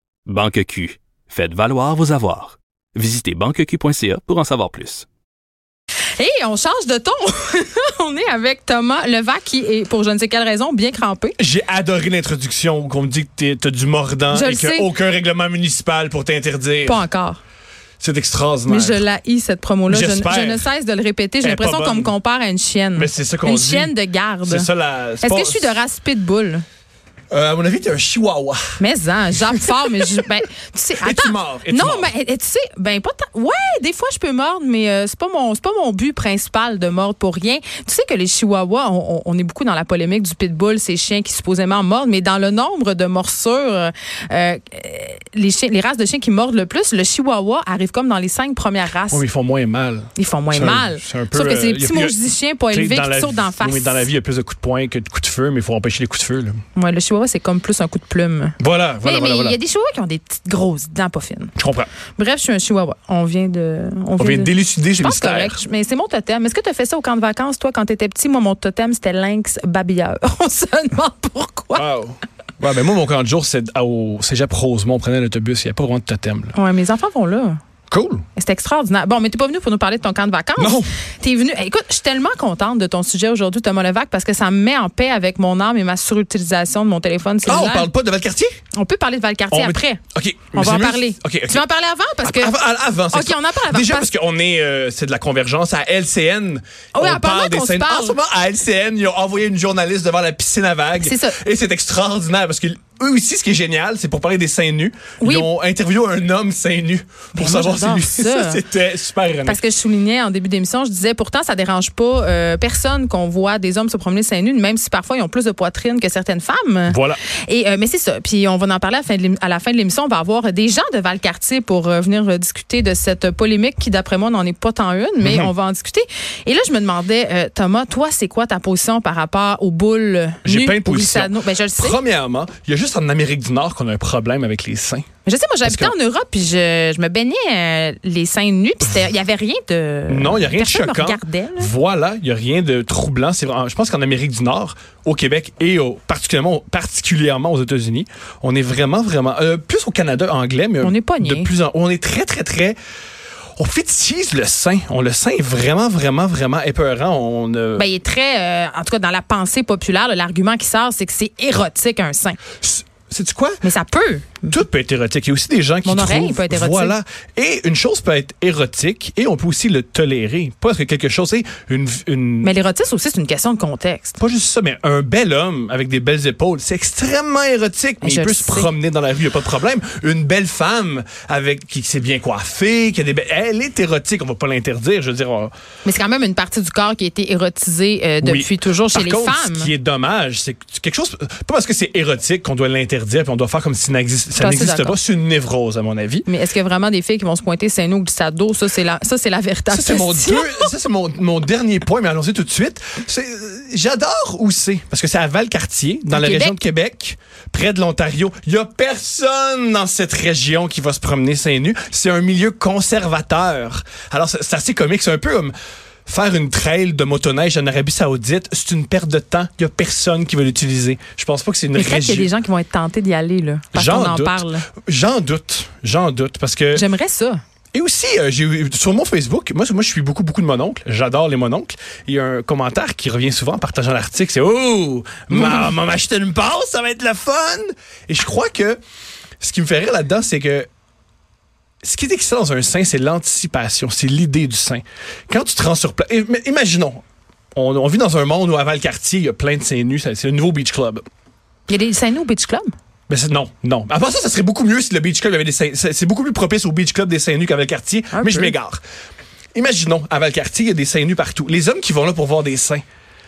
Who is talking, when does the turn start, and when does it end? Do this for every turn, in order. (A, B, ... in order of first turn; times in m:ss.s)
0:00.2-0:05.0 A
0:06.2-0:11.4 B
0:11.4-0:17.0 C
0:14.3-0:14.9 B
0:16.8-0:17.4 B
0:18.0-0:19.0 C
0:18.7-0:24.7 B
0:19.9-0:20.7 C
0:21.4-0:22.2 C
0:23.0-0:23.9 C
0:24.4-0:25.8 C
0:25.2-0:26.6 B
0:27.3-0:28.8 C
0:28.8-0:49.2 B
0:31.0-0:32.1 C
0:49.1-0:52.2 C
0:50.2-0:54.1 B
0:52.7-0:56.6 C
0:56.7-1:01.5 B
0:58.6-0:59.6 C
1:01.6-1:01.9 C
1:02.2-1:11.9 B
1:04.2-1:05.6 C
1:11.7-1:16.5 C
1:16.5-1:17.6 B
1:17.9-1:18.2 C
1:18.3-1:27.9 B
1:20.6-1:20.9 C
1:27.4-1:28.5 C
1:28.7-1:30.0 B
1:29.5-1:31.6 C
1:30.5-1:32.6 B
1:32.2-1:49.6 C
1:33.1-1:34.1 B
1:36.9-1:38.2 B
1:41.0-1:41.4 B
1:45.2-1:45.5 B
1:47.3-1:48.6 B
1:49.4-2:12.0 B
1:56.9-1:57.2 C
2:05.2-2:05.5 C
2:10.4-2:15.0 C
2:15.2-2:21.7 B
2:15.6-2:15.9 C
2:20.1-2:32.8 C
2:30.8-2:31.5 B
2:33.6-2:37.9 C
2:37.8-2:42.4 B
2:42.6-2:43.6 C
2:43.6-2:44.6 B
2:44.5-2:52.5 C
2:45.8-2:47.0 B
2:52.4-2:54.2 B
2:54.2-3:05.5 C
2:58.0-2:58.7 B
3:05.8-3:09.7 B
3:08.2-3:16.3 C
3:14.4-3:15.0 B
3:16.3-3:20.7 B
3:19.7-3:35.5 C
3:26.1-3:26.6 B
3:36.0-3:42.3 C
3:41.7-3:44.7 B
3:43.7-3:46.8 C
3:46.7-3:47.4 B
3:47.7-3:58.8 C
3:59.4-4:00.7 C
4:01.8-4:07.0 C
4:07.5-4:11.0 C
4:11.7-4:12.7 B
4:13.1-4:18.8 C
4:18.1-4:18.5 B
4:19.5-4:22.8 C